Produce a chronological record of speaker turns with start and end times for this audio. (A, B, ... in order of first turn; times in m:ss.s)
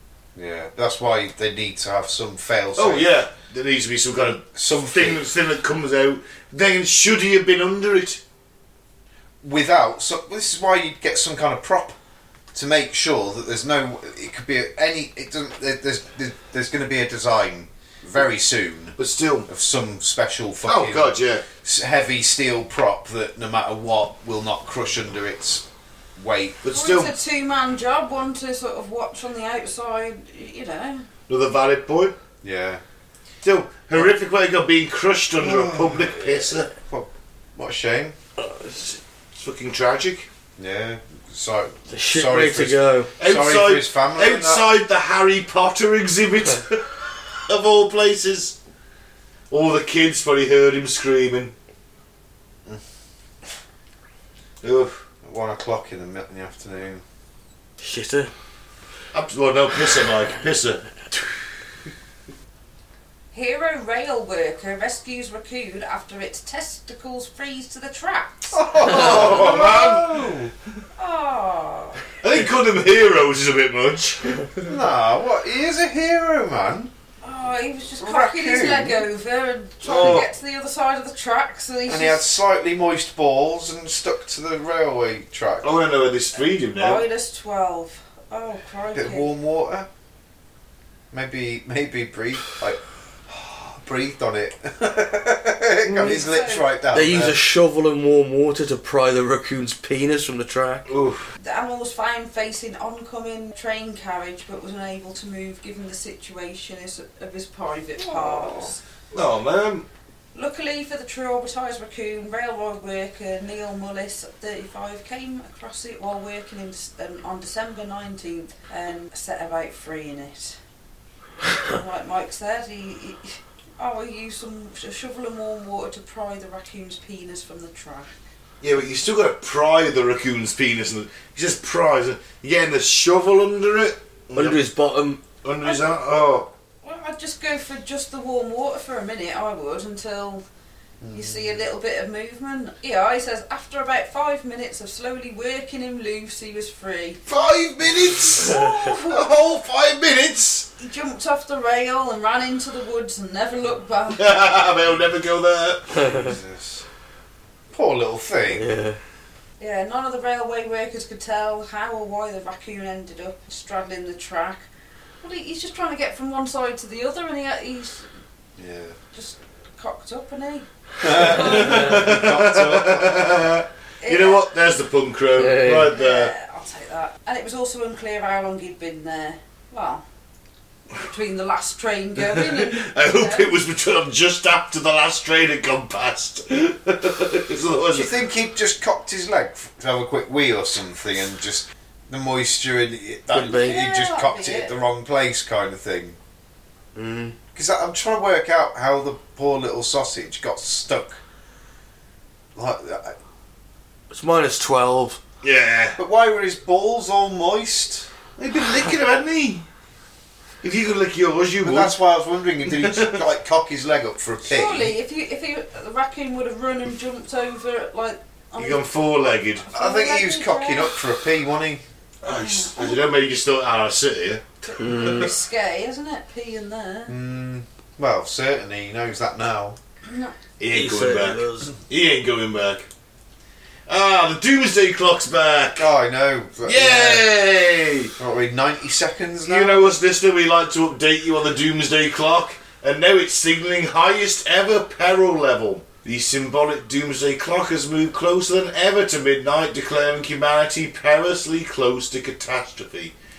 0:00.3-0:03.1 A
0:02.8-0:08.2 B
0:04.2-0:05.2 A
0:09.4-0:12.0 A
0:12.5-0:19.0 A
0:19.0-0:19.5 B
0:19.5-0:25.6 A
0:20.6-0:21.4 B
0:26.2-0:26.6 A
0:26.6-0:27.1 B
0:26.7-0:31.0 C
0:31.3-0:32.1 B
0:32.4-0:32.8 A
0:33.4-0:36.7 B
0:35.4-0:36.3 A
0:36.9-0:38.2 A
0:39.3-0:40.3 B
0:40.6-0:44.7 A
0:41.9-0:43.1 D
0:43.2-0:48.6 B
0:49.5-0:51.5 B
0:54.6-0:55.0 B
0:55.2-0:57.0 A
0:57.8-0:58.3 D
0:59.1-1:00.8 B
1:03.3-1:09.6 C
1:08.5-1:10.5 A
1:08.8-1:10.2 B
1:11.0-1:12.0 C
1:12.2-1:14.6 B
1:14.6-1:16.9 A
1:17.2-1:22.2 C
1:18.0-1:19.0 A
1:19.8-1:20.3 B
1:19.9-1:20.2 A
1:21.9-1:25.7 A
1:25.6-1:27.0 B
1:26.7-1:29.3 C
1:28.9-1:29.9 A
1:31.1-1:37.4 A
1:35.9-1:36.1 B
1:35.9-1:36.6 C
1:36.9-1:40.8 D
1:40.9-1:41.3 B
1:41.4-1:48.8 C
1:48.0-1:48.7 A
1:49.1-1:49.8 B
1:50.3-2:00.6 C
2:01.6-2:08.2 C
2:08.6-2:14.6 B
2:14.4-2:15.2 D
2:15.4-2:16.5 B
2:15.6-2:15.9 C
2:16.8-2:20.4 C
2:21.0-2:21.6 A
2:21.1-2:27.2 C
2:27.3-2:30.7 B
2:28.3-2:29.3 C
2:30.8-2:34.3 C
2:34.1-2:36.2 B
2:36.0-2:36.3 D
2:36.0-2:36.8 A
2:37.7-2:38.7 A
2:38.5-2:39.0 D
2:39.6-2:44.7 C
2:45.2-2:48.1 C
2:48.6-2:49.0 A
2:49.1-2:51.8 C
2:51.0-2:53.4 A
2:51.0-2:56.3 B
2:54.0-2:54.4 C
2:55.4-2:55.9 D
2:55.9-3:00.0 C
3:01.0-3:03.5 C
3:02.3-3:08.1 B
3:07.9-3:16.2 A
3:13.3-3:13.8 D
3:13.4-3:14.8 C
3:16.9-3:17.4 D
3:17.5-3:21.2 A
3:22.5-3:23.2 A
3:24.1-3:25.2 D
3:25.4-3:26.0 B
3:26.0-3:28.1 A
3:28.4-3:29.6 B
3:30.6-3:31.9 B
3:31.6-3:34.9 A
3:32.6-3:33.2 B
3:34.4-3:38.8 C
3:38.6-3:39.7 B
3:39.6-3:41.1 C
3:39.7-3:41.8 A
3:42.2-3:44.4 B
3:42.2-3:43.0 C
3:44.6-3:47.1 C
3:44.8-3:45.3 D
3:47.1-3:49.8 A
3:50.0-3:50.3 C
3:50.6-3:52.9 B
3:50.7-3:51.7 D
3:53.9-3:55.9 B
3:55.8-3:57.2 A
3:56.6-3:58.1 B
3:58.2-3:59.9 A
3:59.4-4:13.1 B